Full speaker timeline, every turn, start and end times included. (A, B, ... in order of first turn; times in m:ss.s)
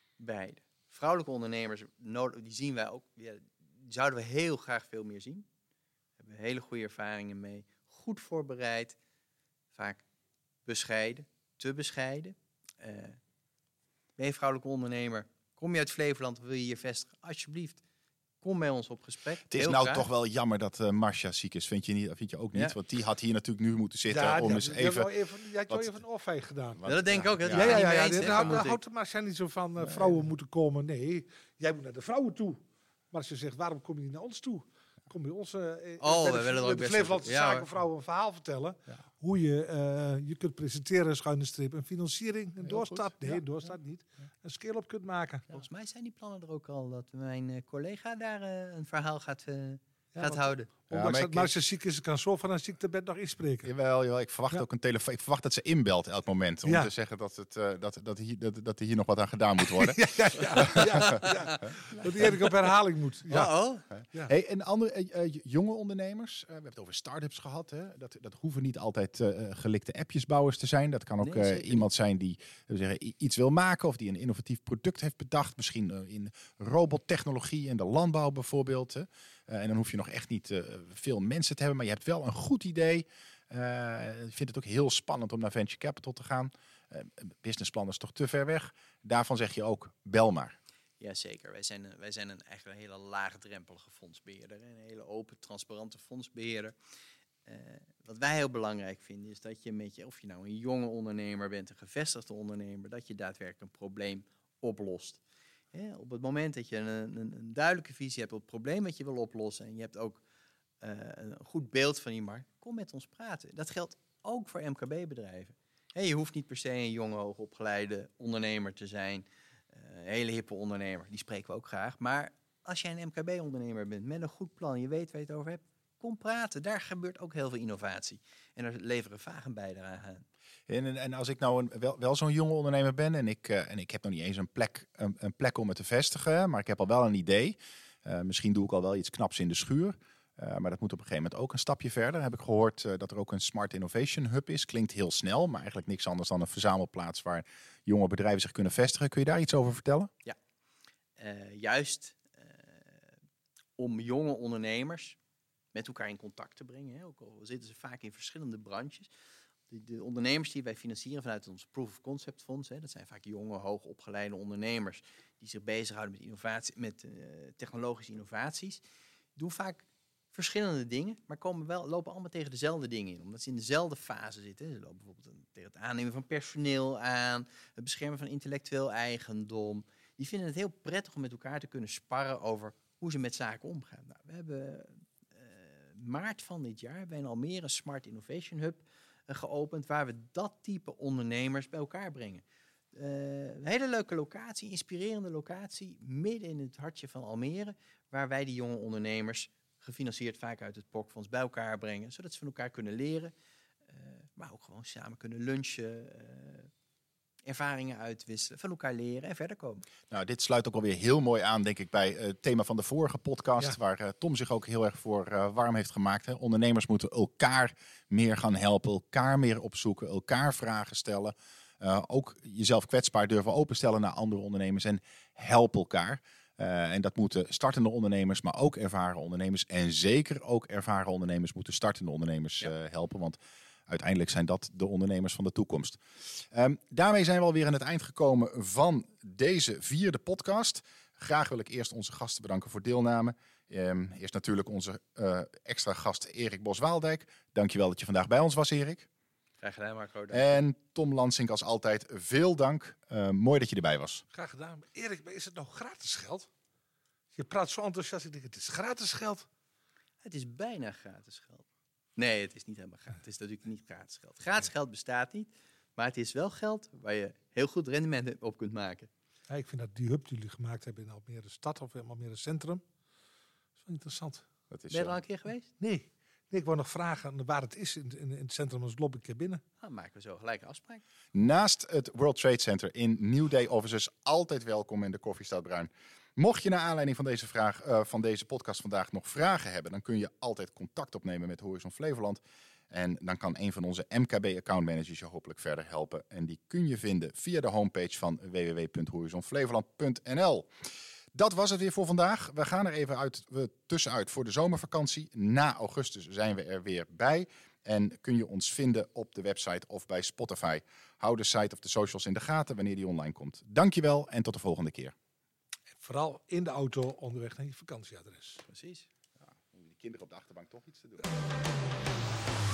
0:00.2-0:05.4 A
0:06.2-0:09.0 A
0:09.7-0:10.1 A
0:10.7-0:13.2 A
0:14.2-0:17.8 A
0:18.4-0:20.1 A
0:19.5-0:25.1 B
0:24.1-0:26.8 C
0:25.7-0:26.0 B
0:26.8-0:28.7 B
0:26.9-0:28.8 A
0:27.5-0:45.6 C
0:29.8-0:30.2 B
0:36.0-0:37.7 A
0:42.6-0:43.4 B
0:45.5-0:50.7 A
0:50.2-0:53.7 C
0:50.9-0:51.5 B
0:53.6-1:01.3 B
0:56.6-0:56.9 C
0:59.7-1:03.6 C
1:01.1-1:02.4 A
1:03.3-1:03.8 A
1:03.3-1:30.6 B
1:11.2-1:11.8 A
1:31.0-1:36.8 A
1:37.5-1:45.2 A
1:45.7-1:50.2 A
1:50.8-2:10.2 A
2:10.7-2:30.1 B
2:31.2-2:33.1 A
2:33.8-2:35.2 A
2:35.7-2:39.1 A
2:39.7-2:48.8 A
2:49.4-3:23.3 A
3:23.9-3:26.7 A
3:27.5-3:29.8 A
3:30.1-4:09.1 B
4:09.6-4:10.6 A
4:10.3-4:14.2 B
4:14.3-4:16.5 C
4:17.3-4:19.5 C
4:20.2-4:21.6 A
4:22.2-4:29.1 A
4:29.5-4:32.8 C
4:33.8-4:34.5 C
4:34.7-4:35.2 B
4:34.9-4:35.7 A
4:35.8-4:39.6 C
4:39.8-4:41.0 A
4:41.3-5:00.7 B
5:01.3-5:15.2 B
5:16.0-5:18.6 C
5:18.7-5:19.1 A
5:19.4-5:21.3 B